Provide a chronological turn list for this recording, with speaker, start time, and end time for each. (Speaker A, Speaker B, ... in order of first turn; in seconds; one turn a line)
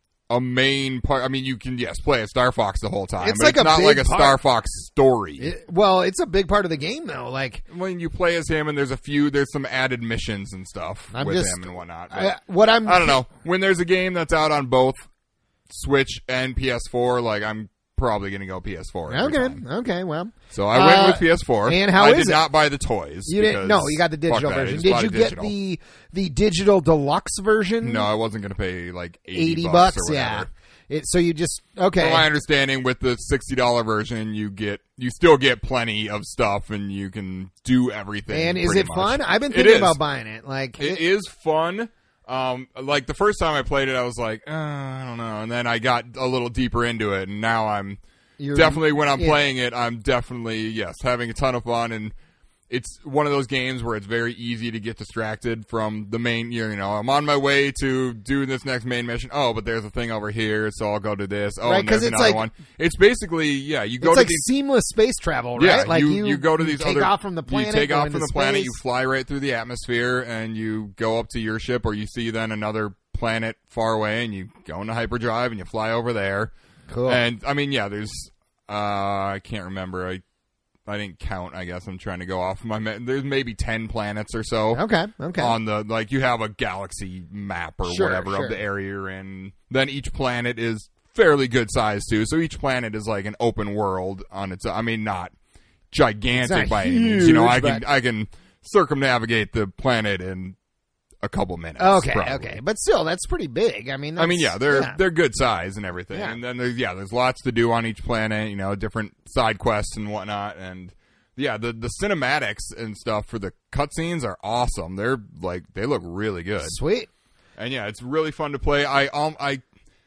Speaker A: 0.3-5.5
Speaker B: 3.2-4.3
Speaker B: 5.4-7.6
Speaker A: 7.7-15.1
Speaker B: 11.1-13.2
Speaker A: 15.7-19.6
Speaker B: 19.1-22.4
Speaker A: 20.5-25.5
Speaker B: 23.3-28.1
Speaker A: 27.8-30.5
Speaker B: 29.3-32.3
Speaker A: 32.0-40.0
Speaker B: 38.3-41.0
Speaker A: 40.8-48.0
Speaker B: 48.4-49.5
Speaker A: 48.5-52.1
Speaker A: 52.7-64.5
Speaker B: 61.6-62.4
Speaker B: 64.0-68.8
Speaker A: 65.6-76.5
Speaker B: 76.9-77.2
Speaker A: 77.0-80.2
Speaker A: 80.8-84.8
Speaker B: 84.7-85.6
Speaker A: 85.4-95.3
Speaker B: 87.9-88.6
Speaker A: 95.9-100.6
Speaker B: 96.4-97.8
Speaker A: 101.2-102.6
Speaker B: 101.8-105.0
Speaker A: 104.2-116.8
Speaker B: 106.1-106.4
Speaker B: 116.6-117.1
Speaker A: 117.6-119.6